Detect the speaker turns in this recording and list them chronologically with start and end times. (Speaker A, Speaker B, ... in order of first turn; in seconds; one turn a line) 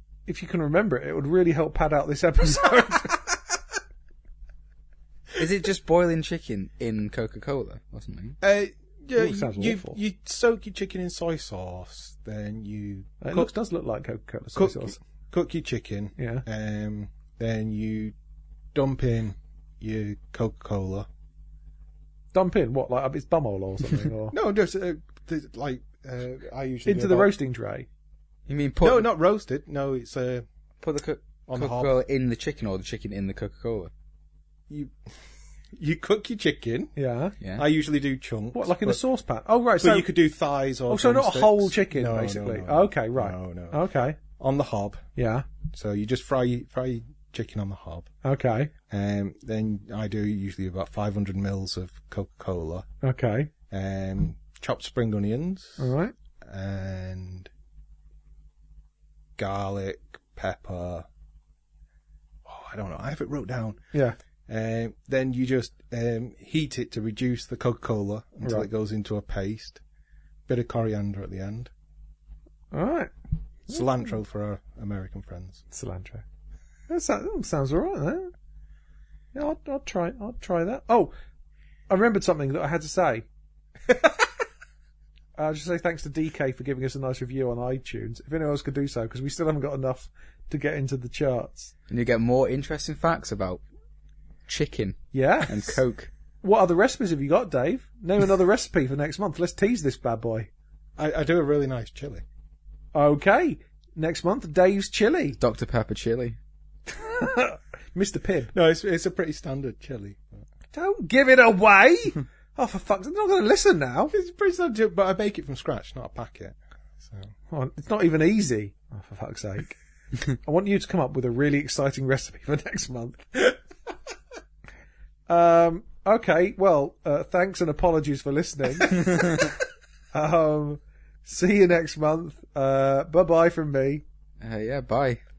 Speaker A: 0.3-3.4
Speaker B: 5.4-8.4
Speaker C: 8.4-13.5
Speaker A: 9.2-10.0
Speaker A: 13.2-15.0
Speaker C: 14.6-18.1
Speaker A: 16.2-16.4
Speaker C: 18.7-21.1
Speaker A: 22.3-24.4
Speaker C: 24.3-27.3
Speaker A: 26.9-27.9
Speaker B: 28.5-29.1
Speaker C: 28.8-30.5
Speaker B: 30.8-33.9
Speaker C: 31.5-31.9
Speaker C: 34.7-35.1
Speaker C: 35.8-36.9
Speaker A: 37.0-37.4
Speaker C: 37.6-39.0
Speaker A: 38.5-40.1
Speaker C: 39.8-43.8
Speaker A: 40.9-44.2
Speaker C: 44.4-45.1
Speaker A: 45.2-45.5
Speaker C: 45.7-48.1
Speaker A: 48.2-48.7
Speaker C: 48.9-52.9
Speaker A: 53.0-53.5
Speaker C: 53.7-57.5
Speaker A: 55.8-56.1
Speaker C: 59.4-61.1
Speaker C: 62.5-63.8
Speaker C: 64.5-69.8
Speaker C: 70.5-71.7
Speaker A: 72.7-73.1
Speaker C: 73.7-75.6
Speaker A: 75.7-76.2
Speaker A: 76.9-78.3
Speaker A: 79.3-81.1
Speaker A: 81.9-83.3
Speaker A: 85.4-91.7
Speaker B: 91.9-93.6
Speaker B: 94.5-96.1
Speaker A: 95.1-95.8
Speaker A: 96.4-100.5
Speaker C: 101.0-102.2
Speaker A: 102.9-105.4
Speaker B: 105.4-106.4
Speaker A: 106.9-108.5
Speaker C: 108.5-110.4
Speaker A: 110.7-114.1
Speaker C: 114.1-117.3
Speaker A: 117.5-119.8
Speaker A: 120.3-123.6
Speaker A: 125.3-129.5
Speaker A: 130.1-134.0
Speaker B: 134.4-135.2